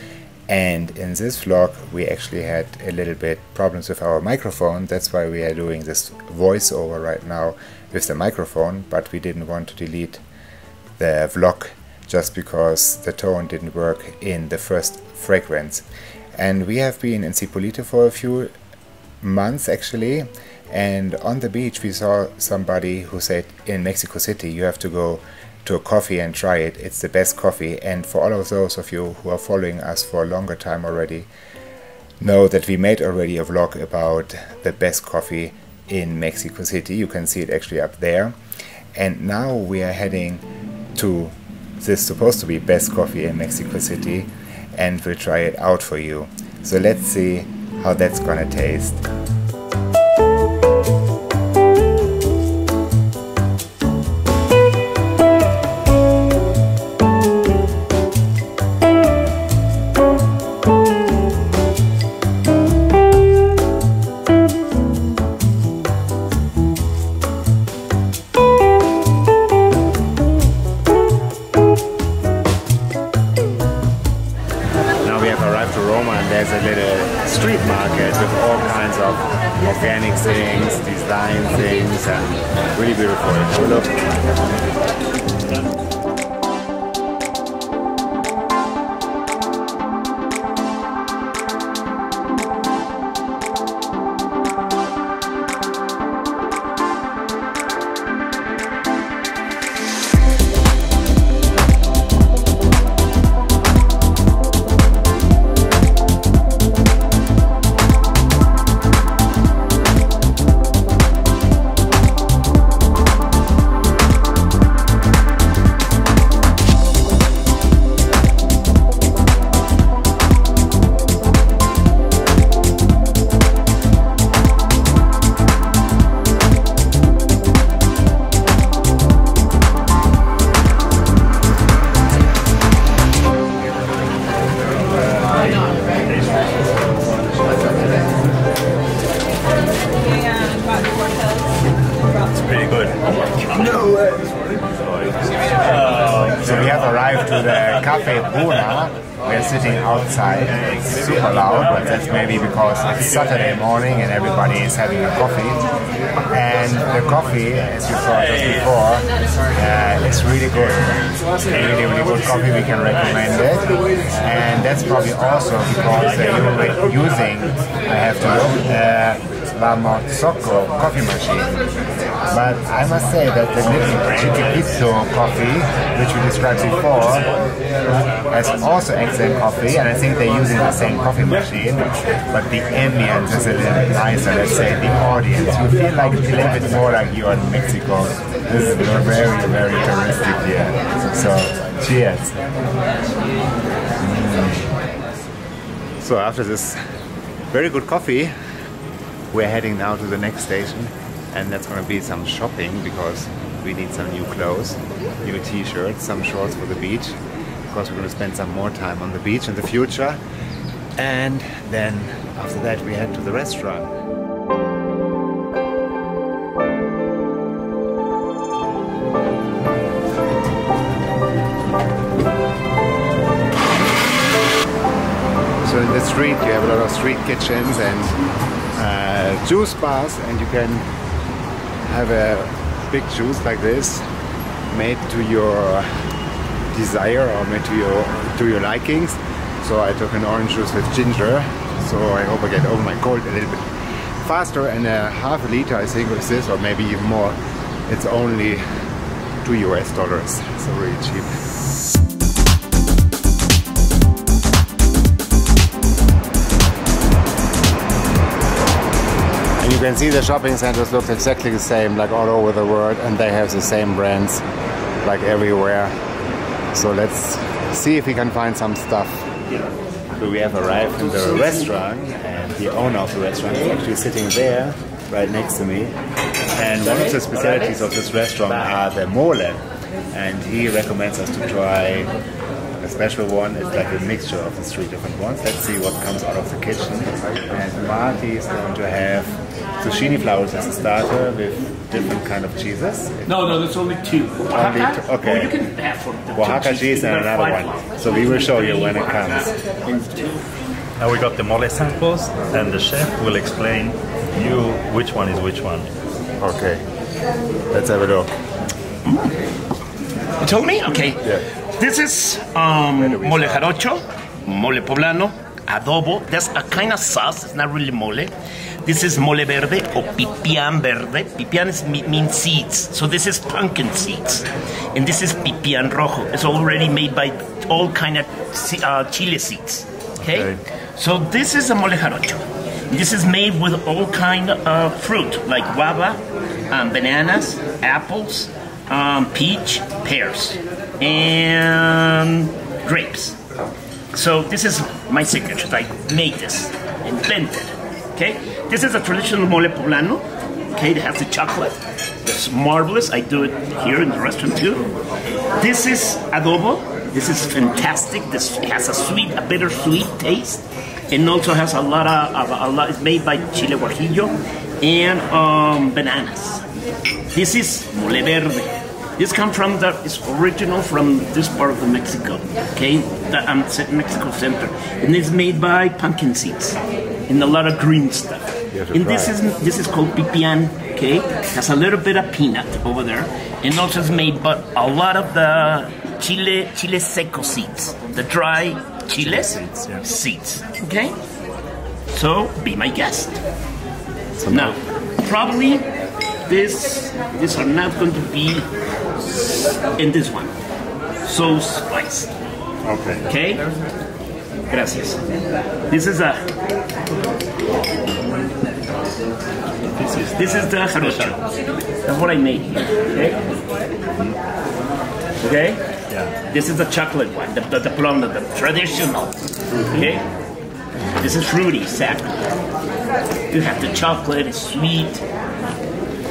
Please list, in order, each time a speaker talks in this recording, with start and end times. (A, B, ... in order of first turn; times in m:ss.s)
0:00.5-0:10.2 A
0:11.0-0:18.5 A
0:19.2-0:31.3 A
0:32.2-0:38.4 A
0:38.9-0:49.0 A
1:15.0-1:24.0 A
2:22.3-2:24.2 B
2:25.6-2:26.7 B
2:26.4-2:35.7 A
2:36.3-2:51.6 A
2:38.2-2:38.7 B
2:52.3-2:57.4 A
2:58.2-3:12.5 A
3:14.0-3:14.7 A
3:16.0-3:16.8 A
3:17.5-3:18.3 A
3:19.3-3:30.2 A
3:31.0-3:34.0 A
3:45.6-3:48.2 A
3:48.7-3:50.9 A
3:51.8-3:54.1 A
3:54.7-3:56.0 A
3:56.7-4:03.7 A
4:04.2-4:07.4 A
4:07.9-4:08.6 A
4:09.4-4:11.3 A
4:19.6-4:24.4 A
4:25.0-4:26.0 A
4:26.7-4:29.3 A
4:30.1-4:35.9 A
4:31.0-4:31.7 C
4:36.5-4:42.1 A
4:37.2-4:37.8 C
4:42.8-4:53.6 A
4:53.2-5:00.4 C
4:54.5-4:55.5 A
4:56.3-4:59.5 A
5:01.0-5:05.9 B
5:06.4-5:06.8 A
5:07.7-5:08.3 A
5:09.0-5:09.3 C
5:10.4-5:43.4 C
5:13.0-5:13.7 A
5:30.2-5:30.6 B
5:44.1-5:54.9 C
5:55.6-6:06.6 C
6:07.3-6:31.2 C
6:18.7-6:19.3 A
6:29.2-6:30.0 B
6:32.1-6:33.4 C
6:34.4-6:34.7 A
6:34.4-6:35.8 C
6:36.4-6:38.7 C
6:39.2-6:40.5 C
6:41.2-6:42.3 C
6:42.8-6:43.2 B
6:43.3-6:43.7 C
6:44.7-6:45.2 C
6:45.9-6:46.4 C
6:49.9-6:51.4 B
6:50.4-6:51.4 C
6:52.0-6:53.4 C
6:55.4-6:55.8 C
6:56.1-6:56.3 B
6:56.5-6:59.3 C
6:59.9-7:00.2 C
7:01.2-7:02.5 C
7:03.5-7:05.2 C